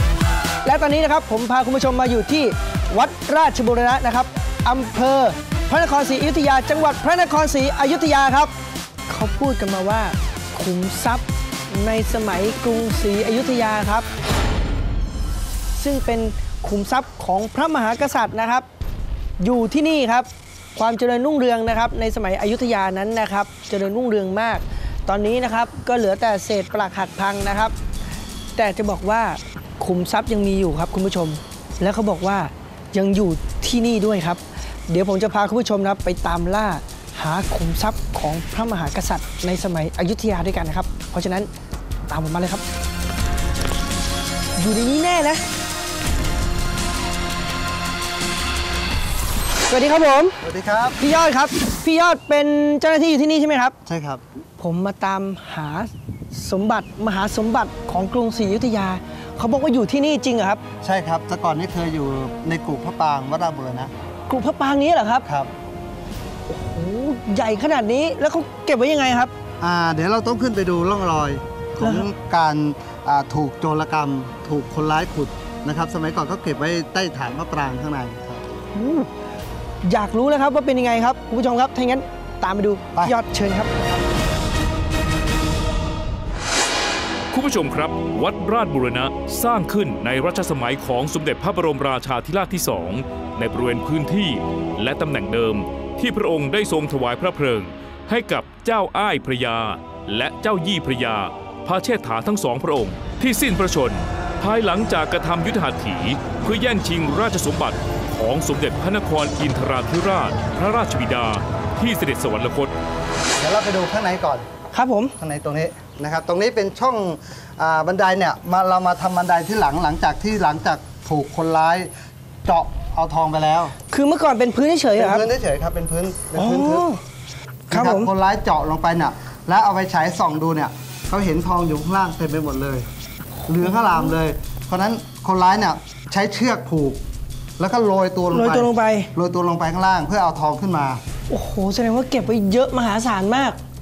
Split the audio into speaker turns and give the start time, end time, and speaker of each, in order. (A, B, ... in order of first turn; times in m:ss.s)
0:00.6-0:08.5 A
0:09.1-0:14.1 A
0:15.8-0:18.6 A
0:19.4-0:27.7 A
0:28.6-0:41.5 A
0:42.1-0:42.6 A
0:44.6-0:45.4 A
0:49.7-0:50.4 A
0:50.4-0:51.0 B
0:51.0-0:53.7 A
0:53.8-0:54.2 B
0:54.6-1:00.6 A
1:00.8-1:03.9 B
1:04.3-1:05.2 A
1:05.2-1:05.5 B
1:06.5-1:09.3 A
1:09.6-1:18.4 B
1:11.8-1:12.0 A
1:18.7-1:19.1 A
1:19.8-1:23.7 A
1:27.3-1:52.7 C
1:53.4-1:54.5 B
1:54.7-1:55.1 A
1:55.2-2:01.9 B
2:02.4-2:03.7 B
2:03.9-2:05.2 A
2:04.9-2:06.9 B
2:06.3-2:07.0 A
2:07.7-2:08.1 A
2:07.7-2:12.9 B
2:13.5-2:17.0 B
2:13.6-2:14.1 A
2:17.6-2:21.0 B
2:18.3-2:19.1 A
2:21.3-2:23.6 A